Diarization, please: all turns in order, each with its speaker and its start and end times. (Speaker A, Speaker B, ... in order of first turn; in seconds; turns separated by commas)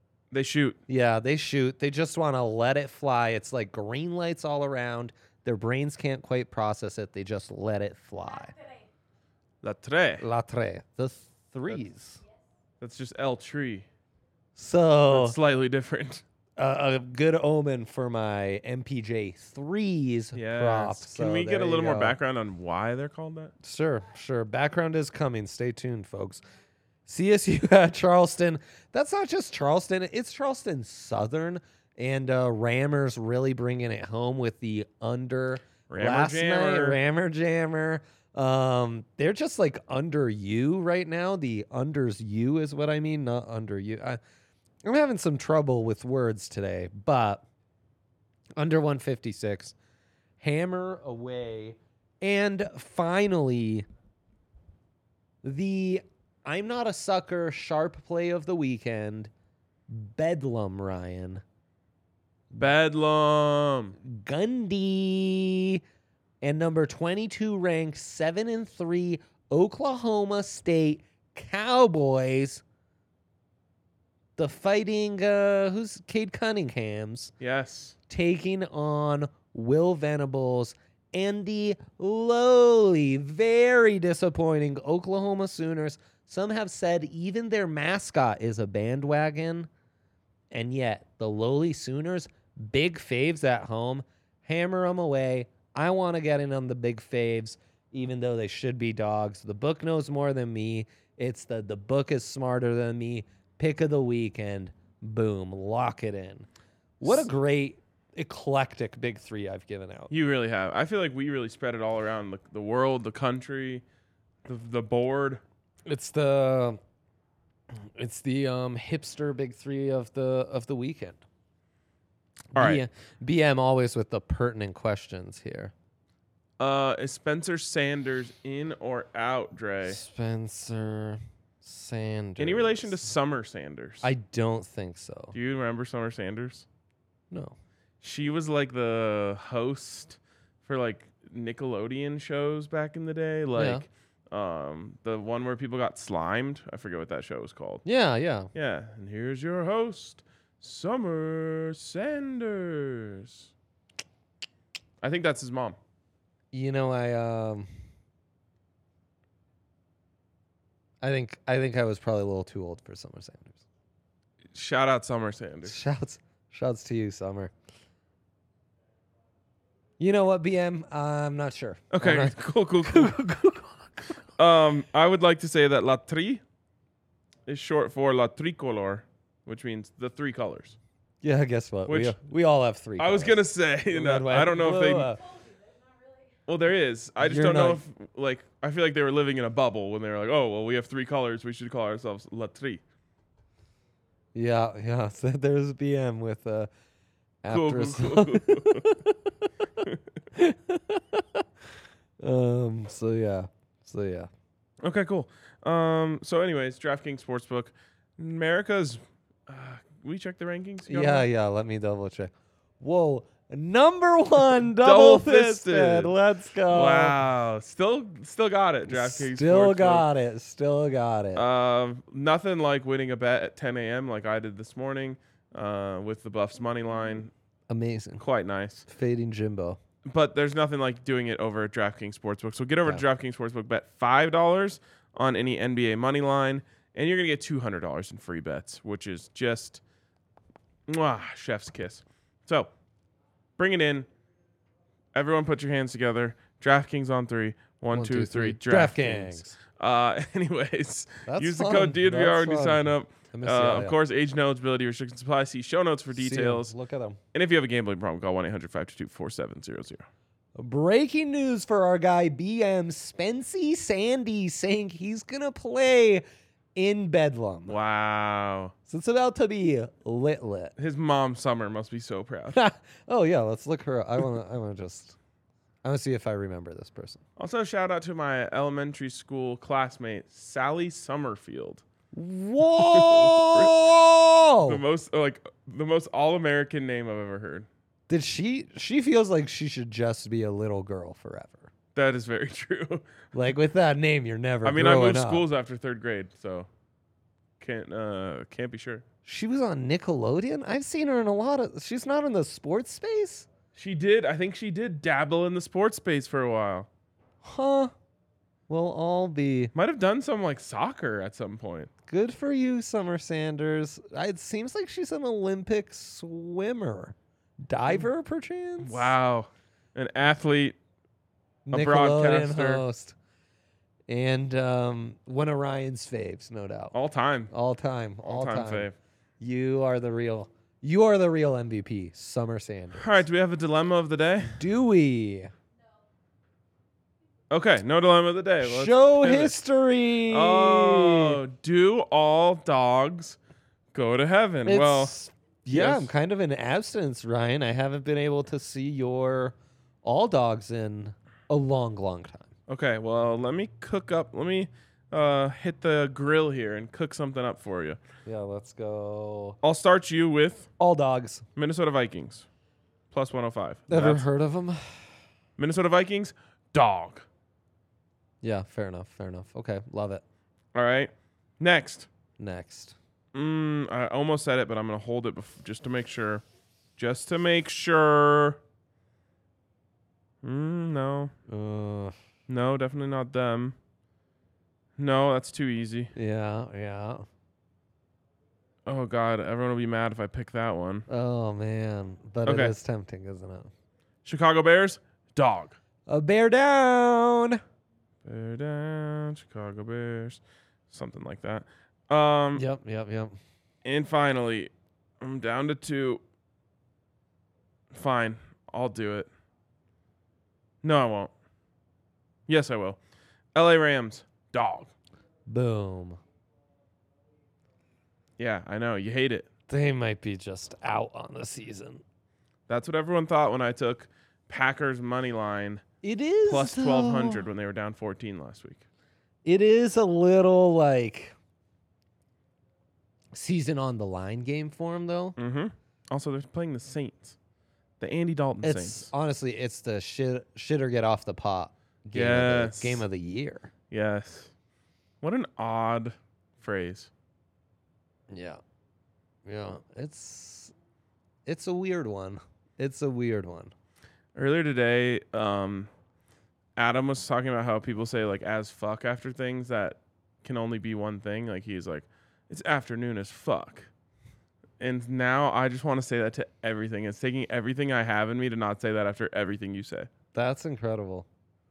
Speaker A: 0.3-0.8, Speaker B: 0.9-8.6, Speaker A: 9.6-10.3, Speaker B: 10.2-12.2, Speaker A: 12.8-13.9, Speaker B: 14.6-15.4, Speaker A: 15.1-16.2, Speaker B: 16.6-22.2, Speaker A: 20.3-23.5, Speaker B: 23.6-26.4, Speaker B: 27.1-44.2, Speaker A: 35.9-37.0, Speaker B: 44.8-47.4, Speaker B: 48.6-49.8, Speaker B: 50.4-53.9, Speaker B: 55.4-59.3, Speaker B: 59.9-61.4, Speaker A: 62.6-64.0, Speaker B: 64.0-65.8, Speaker B: 66.4-72.6, Speaker B: 74.4-77.3, Speaker A: 77.4-78.0, Speaker B: 78.1-89.7, Speaker B: 90.5-106.5, Speaker B: 107.0-110.1, Speaker A: 110.1-113.8, Speaker A: 114.5-115.4, Speaker B: 115.9-116.8, Speaker B: 118.0-121.2, Speaker B: 122.5-125.7, Speaker A: 122.5-122.8, Speaker A: 126.6-130.0, Speaker B: 129.8-132.9, Speaker A: 132.4-134.1, Speaker B: 134.0-135.4, Speaker A: 135.3-136.7, Speaker B: 137.3-137.6, Speaker A: 138.0-147.8, Speaker B: 143.6-143.8, Speaker B: 147.8-148.5, Speaker A: 148.6-153.5, Speaker A: 155.0-155.8, Speaker B: 156.5-157.7, Speaker B: 161.0-163.6, Speaker A: 164.5-165.8, Speaker B: 165.7-167.5, Speaker B: 170.0-174.2, Speaker A: 171.9-173.2, Speaker A: 174.4-176.4, Speaker A: 177.5-180.8, Speaker B: 181.2-185.3, Speaker A: 181.9-182.2, Speaker A: 183.0-185.1, Speaker A: 186.5-192.8, Speaker B: 187.2-187.8, Speaker B: 194.3-196.7, Speaker B: 197.4-199.1, Speaker A: 197.5-199.0, Speaker B: 200.3-201.4, Speaker B: 202.2-204.3, Speaker A: 204.8-211.3, Speaker B: 210.9-217.2, Speaker A: 214.5-216.2, Speaker A: 216.7-220.1, Speaker B: 218.9-221.5, Speaker A: 221.3-227.3, Speaker B: 227.7-228.2, Speaker A: 228.2-228.8, Speaker B: 228.9-229.8, Speaker A: 230.1-239.8, Speaker A: 240.9-242.7, Speaker A: 243.6-244.1, Speaker A: 245.1-256.7, Speaker B: 247.9-249.5, Speaker B: 251.3-254.0, Speaker B: 256.1-257.2, Speaker A: 257.3-260.0, Speaker B: 260.6-266.2, Speaker B: 266.8-267.8, Speaker A: 267.7-268.7, Speaker B: 268.9-270.8, Speaker A: 270.8-272.6, Speaker B: 272.5-275.2, Speaker B: 275.8-277.2, Speaker A: 277.4-281.8, Speaker B: 282.1-284.8, Speaker A: 282.6-283.9, Speaker A: 284.6-287.7, Speaker B: 288.1-291.7, Speaker A: 291.9-293.1, Speaker B: 293.3-295.5, Speaker A: 294.6-296.7, Speaker A: 297.6-299.0, Speaker B: 299.3-303.5, Speaker A: 303.8-306.9, Speaker B: 307.4-307.9, Speaker B: 308.7-309.7, Speaker A: 309.7-311.9, Speaker B: 312.1-317.1, Speaker B: 317.7-319.1, Speaker A: 318.8-320.8, Speaker B: 321.7-323.2, Speaker A: 321.7-322.8, Speaker B: 324.1-327.0, Speaker A: 326.9-327.5, Speaker B: 327.5-333.2, Speaker A: 328.2-328.9, Speaker A: 333.0-334.6, Speaker B: 334.5-335.5, Speaker A: 337.5-339.6, Speaker B: 338.6-341.4, Speaker A: 340.3-343.4, Speaker A: 343.9-345.1, Speaker B: 344.6-352.5, Speaker A: 345.7-346.1, Speaker A: 352.7-358.0, Speaker B: 358.3-359.6, Speaker A: 359.6-360.7, Speaker B: 360.8-361.4, Speaker A: 361.6-362.5, Speaker A: 363.1-364.3, Speaker B: 363.9-365.1, Speaker A: 365.6-367.3, Speaker B: 368.4-370.2, Speaker A: 370.7-372.1, Speaker B: 372.4-373.0, Speaker A: 373.3-376.4, Speaker A: 377.0-378.6, Speaker A: 380.4-381.3, Speaker B: 381.5-382.1, Speaker A: 382.5-383.8, Speaker A: 385.0-386.1, Speaker B: 386.1-387.2, Speaker A: 388.9-391.1, Speaker B: 391.1-393.7, Speaker A: 392.4-392.7, Speaker A: 394.2-395.8, Speaker B: 396.1-397.6, Speaker A: 398.2-402.7, Speaker B: 402.6-403.4, Speaker A: 403.8-406.2, Speaker A: 407.9-409.3, Speaker A: 410.8-411.3, Speaker A: 412.5-413.0, Speaker A: 413.6-414.9, Speaker B: 415.5-416.2, Speaker A: 418.4-419.5, Speaker B: 419.7-422.0, Speaker A: 422.7-425.8, Speaker B: 426.0-427.4, Speaker A: 426.4-428.8, Speaker B: 429.4-431.4, Speaker B: 433.3-435.4, Speaker A: 435.4-437.4, Speaker A: 438.0-439.1, Speaker B: 438.6-443.7, Speaker A: 442.1-443.1, Speaker A: 443.9-444.5, Speaker A: 445.2-447.1, Speaker B: 448.3-448.6, Speaker B: 449.5-450.7, Speaker B: 451.4-453.7, Speaker A: 454.4-455.9, Speaker A: 456.8-463.9, Speaker A: 464.8-470.1, Speaker B: 470.3-471.3